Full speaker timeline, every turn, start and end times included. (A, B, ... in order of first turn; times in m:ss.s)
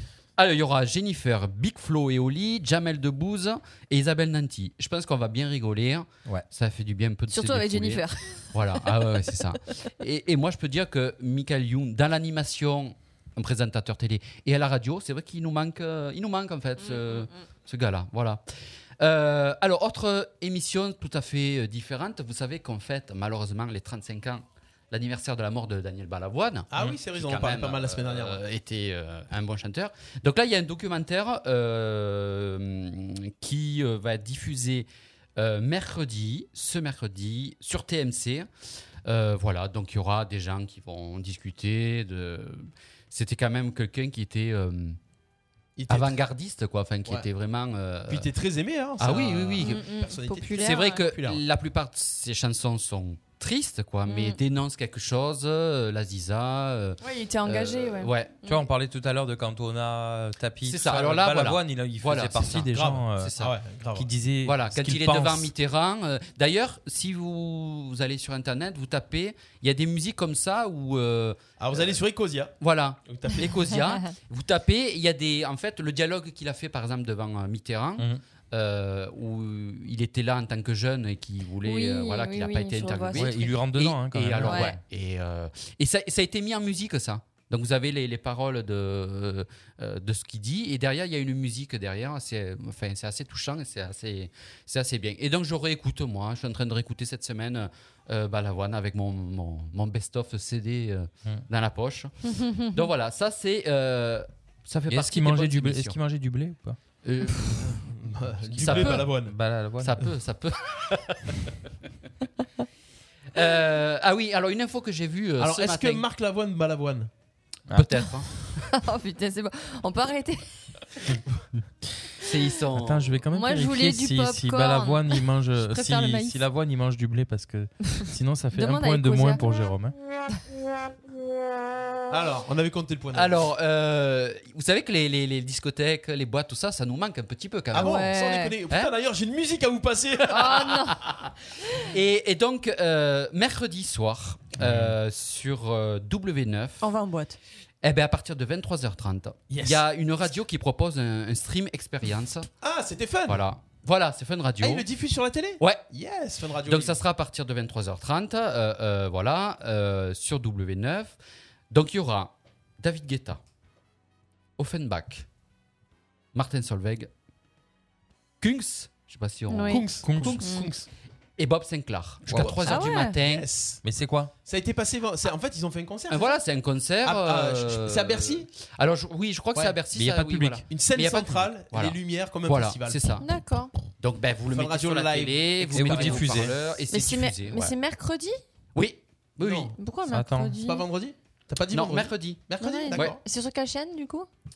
0:00.4-0:18.4 A
0:07.3-0:08.4 B
0:16.9-0:17.2 B
0:19.0-0:38.5 A
0:26.7-0:28.4 C
0:39.0-0:45.0 A
0:45.8-0:46.2 C
0:45.9-0:48.3 A
0:48.1-0:51.4 C
0:49.0-0:49.8 A
0:49.6-0:51.0 B
0:50.6-0:58.3 A
0:54.0-0:54.4 B
0:57.0-0:58.7 B
0:58.5-1:03.3 D
1:00.6-1:03.5 A
1:02.7-1:04.1 C
1:04.0-1:05.5 D
1:04.4-1:12.0 A
1:11.6-1:12.5 C
1:12.6-1:46.0 A
1:13.0-1:13.5 C
1:21.6-1:23.5 B
1:23.1-1:24.7 D
1:24.4-1:24.8 B
1:42.2-1:42.8 B
1:44.9-1:46.8 D
1:47.0-1:47.8 A
1:47.6-1:49.3 C
1:48.6-1:49.1 A
1:48.6-1:50.0 D
1:49.8-1:51.3 A
1:53.3-1:56.0 A
1:55.4-1:57.1 C
1:57.7-1:58.1 D
1:57.7-1:58.3 A
1:58.7-2:00.4 B
2:02.2-2:03.2 A
2:02.7-2:09.9 D
2:03.3-2:06.4 B
2:08.5-2:09.4 B
2:12.1-2:13.4 C
2:13.1-2:18.1 A
2:17.7-2:20.7 C
2:17.8-2:18.5 B
2:20.3-2:21.3 A
2:20.3-2:21.0 B
2:21.8-2:26.8 A
2:26.8-2:27.4 B
2:27.8-2:32.5 A
2:29.5-2:29.8 C
2:32.6-2:33.4 C
2:33.3-2:34.8 A
2:34.6-2:37.0 C
2:36.6-2:41.1 A
2:41.7-2:43.4 A
2:44.6-2:45.2 A
2:46.3-2:47.1 A
2:48.4-2:50.4 A
2:49.5-2:49.8 B
2:49.7-2:50.8 C
2:50.0-2:50.4 D
2:50.4-2:50.7 B
2:51.4-2:53.5 A
2:52.3-2:52.5 D
2:52.3-2:53.8 C
2:52.6-2:53.2 B
2:53.8-2:54.3 D
2:54.4-2:56.3 C
2:56.1-3:03.2 A
2:57.0-2:58.5 C
2:59.9-3:00.6 D
3:00.7-3:03.2 C
3:03.2-3:03.7 B
3:04.0-3:07.7 A
3:04.5-3:06.5 C
3:05.7-3:06.5 D
3:06.9-3:08.4 B
3:08.7-3:09.7 A
3:09.4-3:09.7 C
3:09.8-3:10.8 B
3:10.1-3:10.6 D
3:10.6-3:13.2 C
3:11.7-3:13.1 A
3:12.6-3:14.3 B